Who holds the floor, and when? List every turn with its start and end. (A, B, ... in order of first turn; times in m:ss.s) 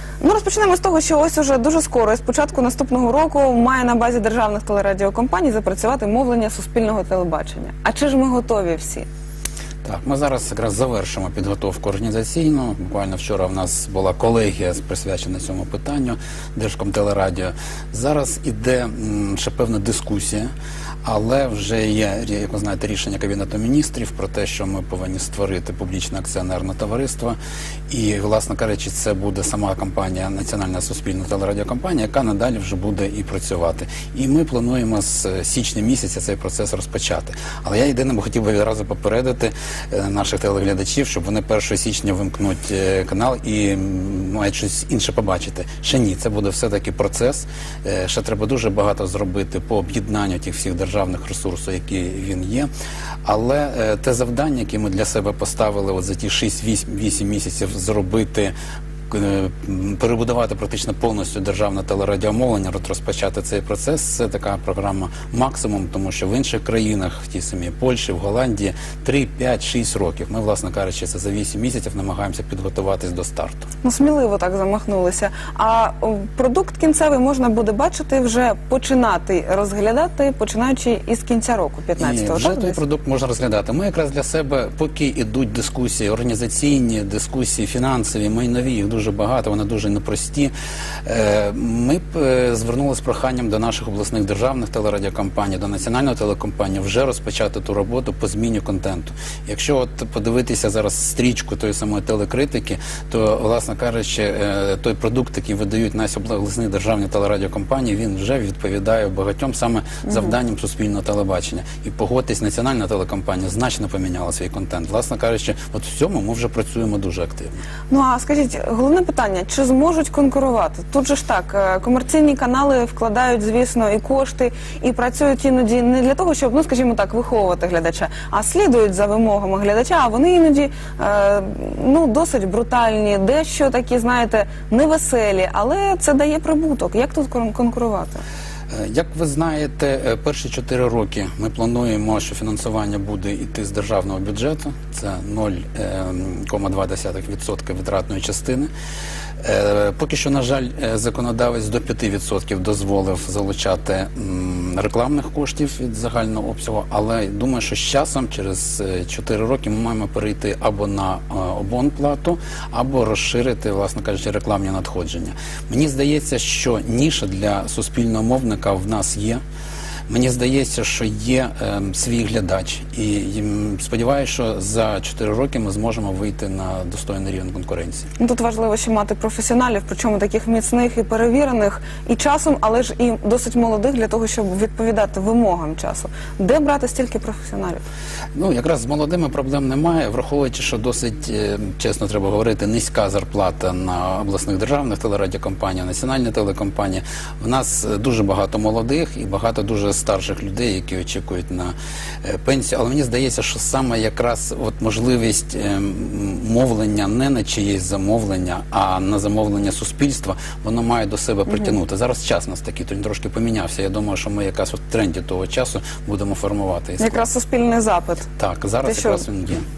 0:00.2-0:09.1 A
0:09.8-0:20.5 B
0:21.0-0:27.4 B
0:27.9-0:52.7 B
0:53.2-0:58.5 B
0:59.1-1:13.7 B
1:13.8-1:22.8 A
1:22.0-1:30.5 B
1:31.0-1:57.5 B
1:57.9-2:18.2 A
2:18.7-2:28.7 B
2:29.4-2:49.4 B
2:50.1-2:58.1 B
2:58.2-3:07.8 A
3:08.3-3:37.2 B
3:37.0-3:38.3 A
3:38.4-3:39.6 B
3:38.8-3:39.2 A